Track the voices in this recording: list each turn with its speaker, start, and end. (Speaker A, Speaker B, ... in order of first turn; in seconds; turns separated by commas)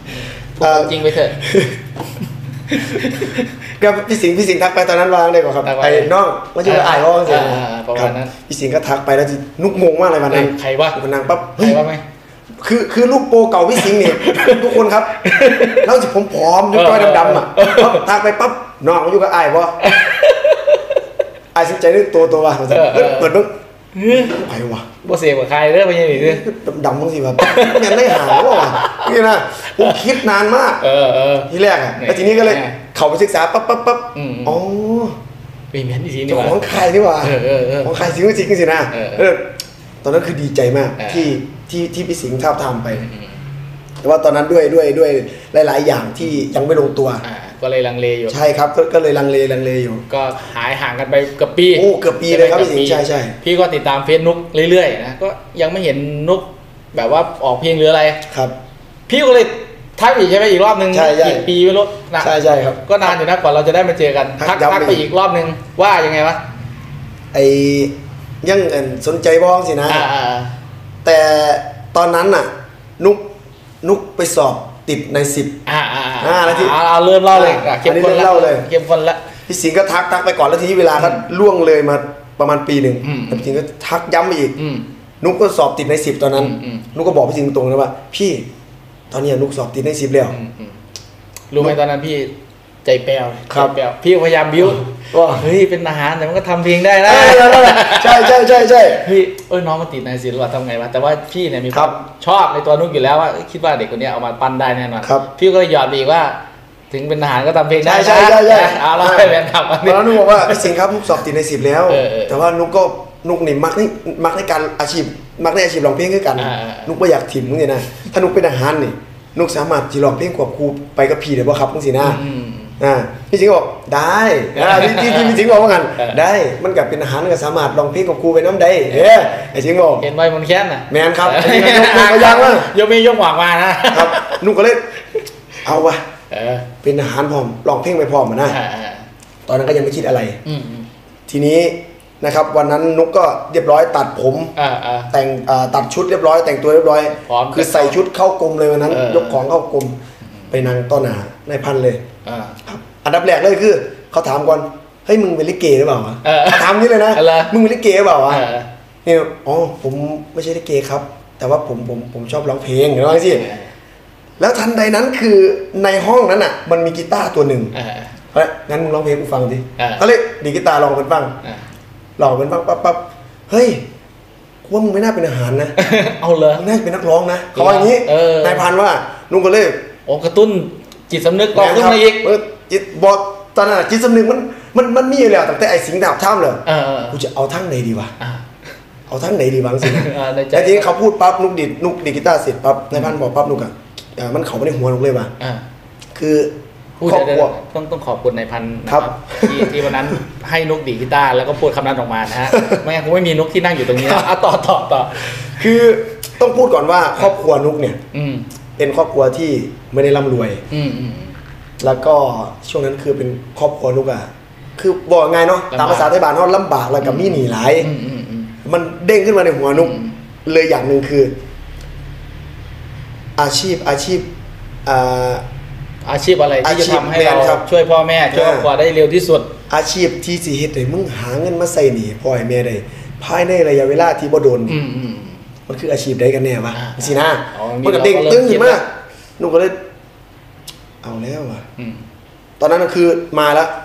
Speaker A: 0.6-1.4, Speaker B: 0.6-1.8, Speaker A: 2.7-3.5, Speaker B: 3.8-11.8, Speaker A: 5.6-6.1, Speaker A: 6.6-8.3, Speaker A: 10.3-11.0, Speaker A: 11.6-12.0, Speaker B: 12.6-19.9, Speaker A: 13.8-15.9, Speaker A: 16.7-18.0, Speaker A: 19.8-21.0, Speaker B: 21.5-23.5, Speaker A: 22.7-23.3, Speaker A: 23.9-24.3, Speaker B: 24.1-24.9, Speaker A: 25.0-26.4, Speaker B: 26.1-30.9, Speaker A: 27.4-29.1, Speaker A: 29.8-30.0, Speaker A: 30.8-32.7, Speaker B: 31.5-35.1, Speaker A: 34.1-34.6, Speaker A: 35.7-36.6, Speaker B: 36.3-39.5, Speaker A: 37.2-38.1, Speaker A: 38.9-39.2, Speaker B: 40.0-43.0, Speaker A: 41.0-41.4, Speaker A: 42.9-43.4, Speaker B: 44.0-47.2, Speaker A: 47.2-48.4, Speaker B: 48.3-50.0, Speaker A: 50.1-58.2, Speaker B: 51.7-53.4, Speaker B: 58.3-58.5, Speaker A: 59.1-62.3, Speaker B: 60.9-61.5, Speaker B: 62.2-63.1, Speaker A: 62.9-66.4, Speaker B: 64.4-65.0, Speaker B: 67.3-70.0, Speaker A: 69.9-70.5, Speaker B: 71.0-73.2, Speaker B: 73.8-75.5, Speaker A: 75.7-79.2, Speaker B: 76.2-76.8, Speaker B: 77.3-78.6, Speaker B: 79.5-84.6, Speaker A: 81.0-81.2, Speaker A: 83.0-83.5, Speaker A: 84.6-84.8, Speaker B: 85.2-88.4, Speaker A: 86.3-86.9, Speaker B: 89.1-90.4, Speaker A: 90.3-90.8, Speaker A: 91.5-92.3, Speaker A: 92.8-106.4, Speaker B: 95.1-95.5, Speaker B: 97.0-99.0, Speaker B: 105.0-105.3, Speaker A: 106.9-110.8, Speaker B: 107.8-122.2, Speaker A: 111.9-112.4, Speaker A: 116.3-117.0, Speaker A: 122.0-122.8, Speaker B: 122.8-130.1, Speaker A: 124.5-126.2, Speaker A: 128.9-134.4, Speaker B: 130.9-132.7, Speaker B: 133.9-134.8, Speaker B: 135.6-136.0, Speaker A: 136.3-136.7, Speaker B: 136.8-138.6, Speaker A: 138.4-139.1, Speaker B: 139.5-140.4, Speaker A: 140.4-140.9, Speaker B: 141.3-144.5, Speaker A: 144.6-145.1, Speaker B: 145.1-149.9, Speaker A: 147.1-148.0, Speaker A: 148.9-149.4, Speaker B: 150.5-152.0, Speaker A: 152.2-152.6, Speaker B: 152.6-158.4, Speaker A: 156.2-157.5, Speaker A: 158.3-158.7, Speaker B: 159.0-163.5, Speaker A: 163.1-163.7, Speaker B: 164.4-167.7, Speaker A: 167.7-168.1, Speaker B: 168.3-171.3, Speaker A: 169.8-170.0, Speaker B: 172.2-173.8, Speaker B: 174.7-175.8, Speaker A: 175.8-176.6, Speaker B: 176.5-179.8, Speaker A: 177.5-178.7, Speaker A: 180.1-182.3, Speaker B: 181.5-188.1, Speaker A: 186.7-187.2, Speaker A: 188.2-188.4, Speaker B: 189.1-195.3, Speaker A: 189.8-190.9, Speaker B: 196.2-196.5, Speaker A: 197.0-205.3, Speaker B: 197.1-197.5, Speaker B: 198.9-200.2, Speaker B: 202.5-202.8, Speaker B: 203.9-204.2, Speaker B: 205.2-208.0, Speaker A: 208.1-208.4, Speaker B: 208.8-210.6, Speaker A: 210.7-211.3, Speaker B: 211.8-217.9, Speaker A: 215.7-216.1, Speaker A: 217.0-218.6, Speaker B: 218.6-221.3, Speaker A: 219.7-220.1, Speaker B: 223.4-224.2, Speaker B: 224.8-225.4, Speaker A: 226.0-229.5, Speaker B: 226.6-227.7, Speaker B: 228.3-228.7, Speaker B: 229.7-234.8, Speaker A: 234.7-235.4, Speaker B: 235.7-239.8, Speaker A: 236.7-238.8, Speaker B: 241.0-241.7, Speaker A: 241.8-242.0, Speaker B: 242.6-243.7